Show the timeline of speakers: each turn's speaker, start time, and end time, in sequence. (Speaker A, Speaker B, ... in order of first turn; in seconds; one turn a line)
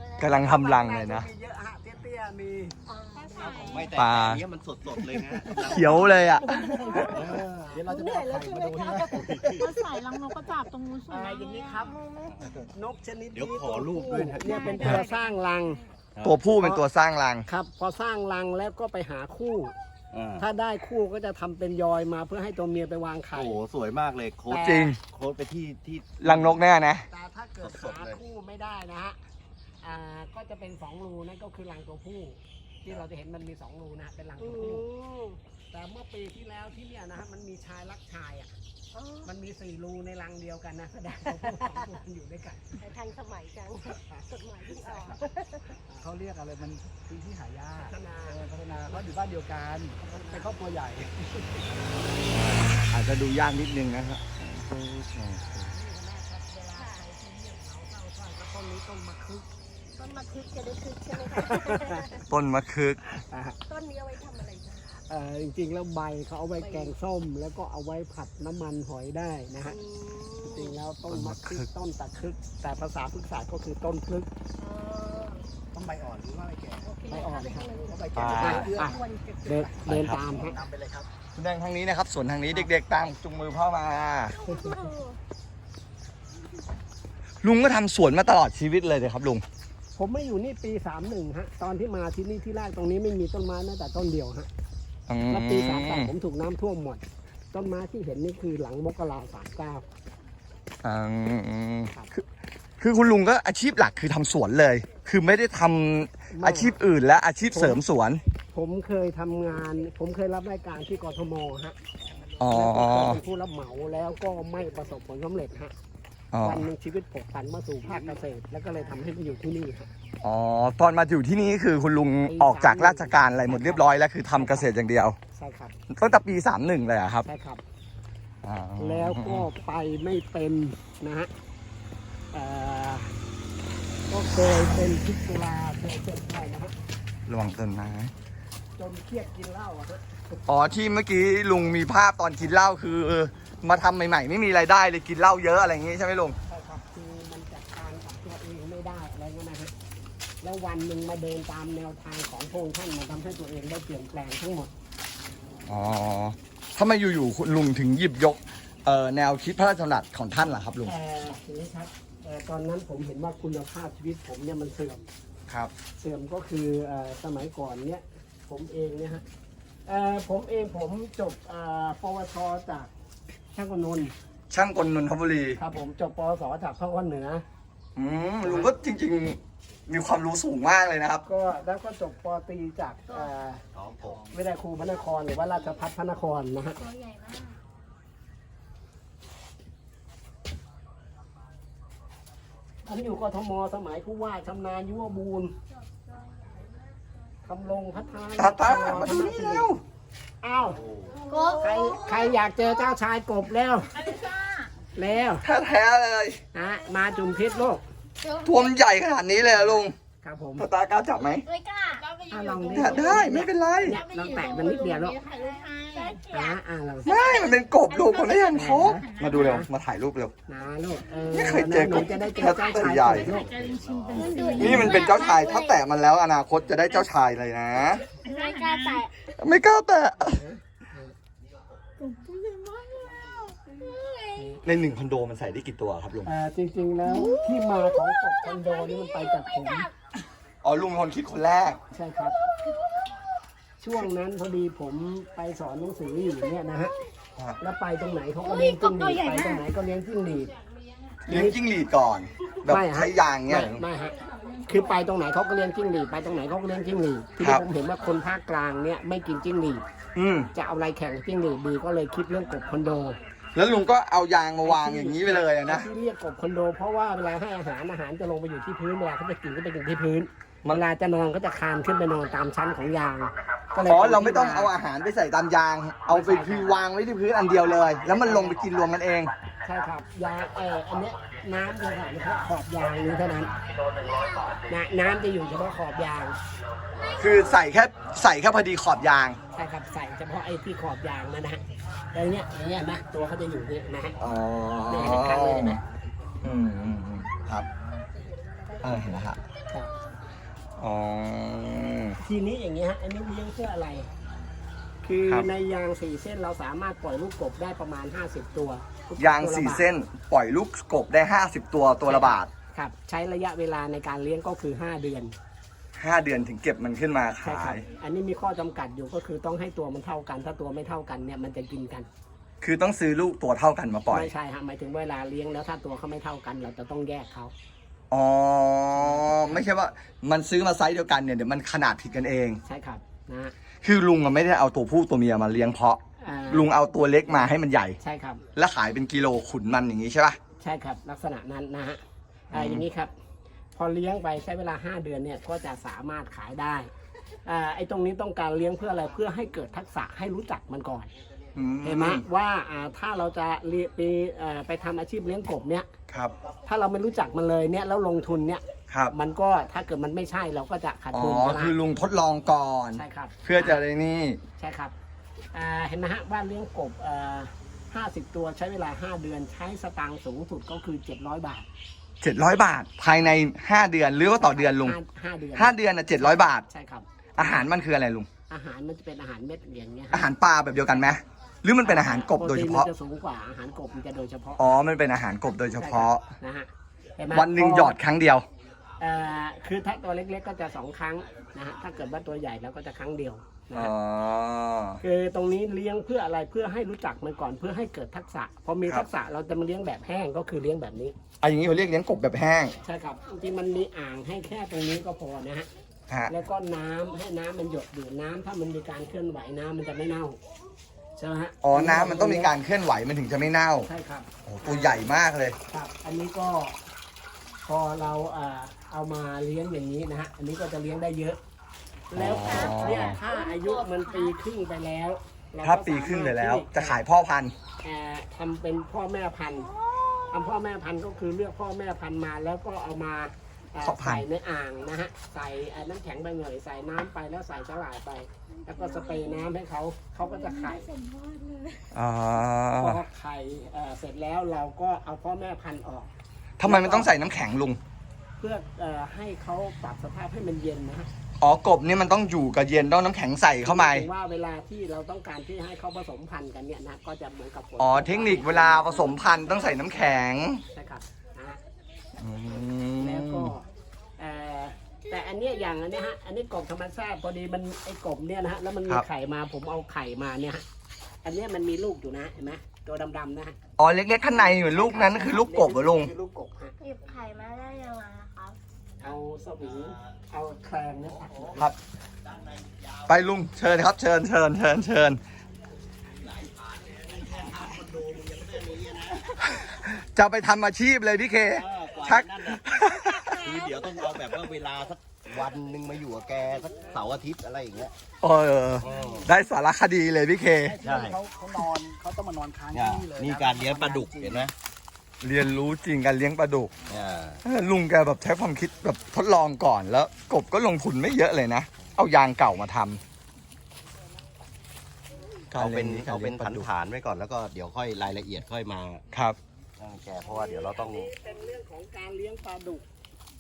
Speaker A: 0.2-1.3
Speaker B: 0.3-2.8
Speaker C: 2.9-3.9
Speaker D: 3.1-3.9
Speaker B: 3.4-3.8
Speaker E: 3.5-6.3
Speaker A: 4.0-4.4
Speaker F: 5.3-6.0
Speaker A: 5.5-7.1
Speaker C: 6.4-7.3
Speaker F: 6.9-9.8
Speaker E: 7.1-7.8
Speaker C: 7.9-9.3
Speaker E: 9.0-9.7
Speaker D: 9.5-12.0
Speaker B: 11.1-12.0
Speaker E: 12.3-12.7
Speaker B: 12.7-15.8
Speaker E: 13.3-15.1
Speaker D: 14.4-15.4
Speaker C: 14.5-15.1
Speaker E: 16.1-16.4
Speaker A: 16.2-17.5
Speaker B: 16.6-16.8
Speaker B: 17.5-19.8
Speaker E: 20.1-20.5
Speaker B: 20.4-23.6
Speaker E: 23.3-26.6
Speaker B: 24.5-24.9
Speaker A: 24.6-25.0
Speaker A: 26.2-27.1
Speaker B: 27.1-29.2
Speaker E: 27.6-28.2
Speaker B: 29.8-34.9
Speaker C: 34.4-35.4
Speaker B: 35.7-38.6
Speaker C: 38.9-39.3
Speaker B: 39.2-42.8
Speaker C: 41.3-41.9
Speaker C: 42.8-45.7
Speaker B: 44.9-45.2
Speaker F: 46.0-52.2
Speaker B: 47.8-49.0
Speaker B: 50.0-51.7
Speaker A: 52.3-55.7
Speaker B: 55.7-59.5
Speaker C: 56.8-57.0
Speaker C: 60.0-62.2
Speaker B: 61.1-62.0
Speaker A: 62.3-63.0
Speaker B: 63.3-63.6
Speaker C: 63.7-64.9
Speaker B: 65.0-69.8
Speaker C: 66.6-67.0
Speaker C: 69.7-70.7
Speaker B: 70.4-74.3
Speaker A: 71.1-71.7
Speaker C: 74.6-75.5
Speaker F: 75.7-81.1
Speaker C: 76.8-79.5
Speaker B: 77.1-77.7
Speaker A: 78.1-78.7
Speaker B: 78.4-80.6
Speaker A: 79.9-80.2
Speaker A: 81.3-84.4
Speaker C: 84.4-85.2
Speaker B: 84.5-84.8
Speaker A: 87.4-89.4
Speaker B: 90.0-94.5
Speaker A: 95.1-96.1
Speaker B: 95.3-99.8
Speaker A: 100.8-102.2
Speaker A: 102.8-108.2
Speaker B: 106.3-106.8
Speaker B: 107.5-107.8
Speaker B: 108.5-111.8
Speaker A: 112.4-113.2
Speaker B: 112.4-115.7
Speaker A: 116.3-116.7
Speaker B: 116.4-119.9
Speaker A: 120.2-125.2
Speaker B: 122.3-124.7
Speaker B: 125.3-125.8
Speaker A: 125.9-127.3
Speaker B: 127.2-127.6
Speaker A: 128.4-129.5
Speaker B: 128.8-131.3
Speaker B: 132.3-133.2
Speaker B: 134.1-136.8
Speaker A: 137.3-138.1
Speaker B: 138.8-140.4
Speaker A: 140.5-146.4
Speaker B: 146.5-149.7
Speaker B: 150.4-154.7
Speaker A: 155.7-160.9
Speaker B: 160.9-165.1
Speaker B: 166.0-169.2
Speaker B: 169.9-172.9
Speaker B: 173.6-174.1
Speaker A: 174.5-175.6
Speaker B: 175.6-177.4
Speaker A: 178.0-181.2
Speaker B: 178.4-178.7
Speaker B: 181.2-183.6
Speaker E: 183.7-184.3
Speaker F: 183.9-184.3
Speaker B: 184.3-186.8
Speaker G: 186.7-187.6
Speaker B: 192.9-195.6
Speaker G: 195.8-196.7
Speaker B: 197.4-199.7
Speaker A: 198.4-199.8
Speaker B: 200.4-200.8
Speaker E: 200.7-201.2
Speaker G: 201.1-202.4
Speaker B: 201.6-204.0
Speaker D: 204.0-204.5
Speaker G: 204.0-204.5
Speaker B: 204.9-205.5
Speaker A: 205.4-206.4
Speaker B: 206.5-207.9
Speaker G: 208.2-208.7
Speaker A: 208.4-209.9
Speaker B: 209.6-210.7
Speaker A: 210.6-211.4
Speaker G: 211.4-212.2
Speaker D: 212.0-216.3
Speaker B: 212.3-215.2
Speaker A: 212.7-214.0
Speaker G: 215.2-217.6
Speaker B: 216.3-217.1
Speaker A: 217.1-220.3
Speaker D: 217.1-219.6
Speaker B: 218.5-219.7
Speaker B: 220.5-223.5
Speaker A: 221.3-223.3
Speaker D: 222.0-225.3
Speaker E: 223.2-224.9
Speaker G: 224.1-225.8
Speaker A: 224.6-228.1
Speaker G: 228.2-229.1
Speaker D: 228.2-229.1
Speaker A: 229.4-230.4
Speaker B: 230.2-231.2
Speaker D: 232.0-234.0
Speaker G: 233.8-234.6
Speaker B: 234.4-234.6
Speaker A: 234.6-236.3
Speaker B: 236.2-239.9
Speaker G: 238.4-239.9
Speaker A: 240.6-241.8
Speaker B: 241.9-242.4
Speaker B: 243.8-246.9
Speaker B: 247.6-250.5
Speaker G: 248.4-249.7
Speaker B: 251.3-251.6
Speaker A: 251.3-253.8
Speaker B: 252.7-259.8
Speaker D: 254.4-255.0
Speaker A: 257.4-257.6
Speaker A: 260.1-260.5
Speaker B: 260.5-263.2
Speaker A: 263.6-265.9
Speaker B: 264.6-274.7
Speaker A: 273.9-279.3
Speaker B: 276.1-276.8
Speaker B: 278.2-278.6
Speaker B: 279.6-283.5
Speaker G: 284.0-284.6
Speaker B: 284.7-286.4
Speaker G: 287.0-287.6
Speaker A: 287.2-289.4
Speaker B: 289.5-294.2
Speaker A: 294.2-295.8
Speaker B: 294.9-295.8
Speaker A: 296.4-297.7
Speaker C: 298.2-299.3
Speaker A: 298.8-299.4
Speaker A: 300.8-302.2
Speaker B: 302.2-304.1
Speaker B: 305.0-309.9
Speaker A: 309.2-312.5
Speaker B: 312.1-315.4
Speaker A: 316.0-317.9
Speaker B: 317.4-322.1
Speaker A: 322.6-324.3
Speaker B: 324.1-327.5
Speaker A: 328.1-332.6
Speaker B: 329.0-329.6
Speaker B: 332.7-333.6
Speaker A: 333.8-338.0
Speaker B: 336.2-336.7
Speaker B: 338.0-338.4
Speaker A: 338.6-340.4
Speaker B: 340.6-343.1
Speaker A: 342.5-342.9
Speaker B: 343.8-346.9
Speaker B: 347.5-351.1
Speaker A: 351.6-352.2
Speaker B: 351.8-355.9
Speaker A: 356.1-356.3
Speaker B: 356.6-361.8
Speaker A: 361.1-364.4
Speaker B: 362.9-363.8
Speaker B: 364.6-364.9
Speaker B: 365.5-371.7
Speaker A: 372.2-375.0
Speaker B: 374.4-377.5
Speaker A: 375.6-376.7
Speaker A: 377.4-378.3
Speaker B: 378.5-380.3
Speaker A: 380.1-382.9
Speaker B: 381.8-384.6
Speaker A: 384.6-386.3
Speaker B: 385.8-387.9
Speaker A: 387.3-388.5
Speaker B: 389.0-393.9
Speaker A: 393.7-395.0
Speaker B: 395.0-401.2
Speaker A: 401.4-402.8
Speaker B: 402.8-405.7
Speaker A: 406.1-406.4
Speaker B: 406.3-410.4
Speaker B: 411.2-412.5
Speaker A: 411.6-413.9
Speaker B: 413.8-415.1
Speaker A: 414.4-415.6
Speaker B: 415.7-416.8
Speaker B: 417.6-421.4
Speaker B: 422.1-427.0
Speaker A: 422.1-423.2
Speaker G: 422.4-424.4
Speaker A: 425.6-427.6
Speaker B: 427.8-429.7
Speaker G: 429.8-430.2
Speaker B: 430.3-440.9
Speaker A: 433.8-434.3
Speaker G: 438.7-439.4
Speaker D: 438.9-439.1
Speaker G: 440.2-441.9
Speaker A: 441.9-443.0
Speaker B: 442.8-446.1
Speaker A: 446.6-447.8
Speaker B: 446.6-447.2
Speaker B: 448.4-451.1
Speaker A: 451.4-454.1
Speaker B: 453.6-460.1
Speaker A: 457.8-460.6
Speaker B: 460.7-461.6
Speaker A: 462.2-463.5
Speaker B: 463.0-463.7
Speaker B: 464.2-470.6
Speaker B: 471.2-473.6
Speaker A: 473.8-476.1
Speaker B: 474.3-476.8
Speaker G: 476.8-478.6
Speaker B: 479.0-481.7
Speaker E: 479.0-480.1
Speaker E: 481.0-481.6
Speaker E: 482.2-483.2
Speaker A: 483.1-485.2
Speaker E: 486.0-489.7
Speaker A: 489.5-493.3
Speaker E: 491.5-492.7
Speaker E: 493.4-497.9
Speaker A: 498.2-500.8
Speaker E: 498.8-499.3
Speaker F: 500.6-504.5
Speaker E: 500.8-501.2
Speaker E: 502.7-504.5
Speaker A: 505.2-506.8
Speaker E: 506.9-507.4
Speaker A: 507.4-513.0
Speaker E: 515.5-519.0
Speaker A: 515.5-516.7
Speaker A: 519.1-519.4
Speaker E: 519.8-521.1
Speaker B: 520.2-522.9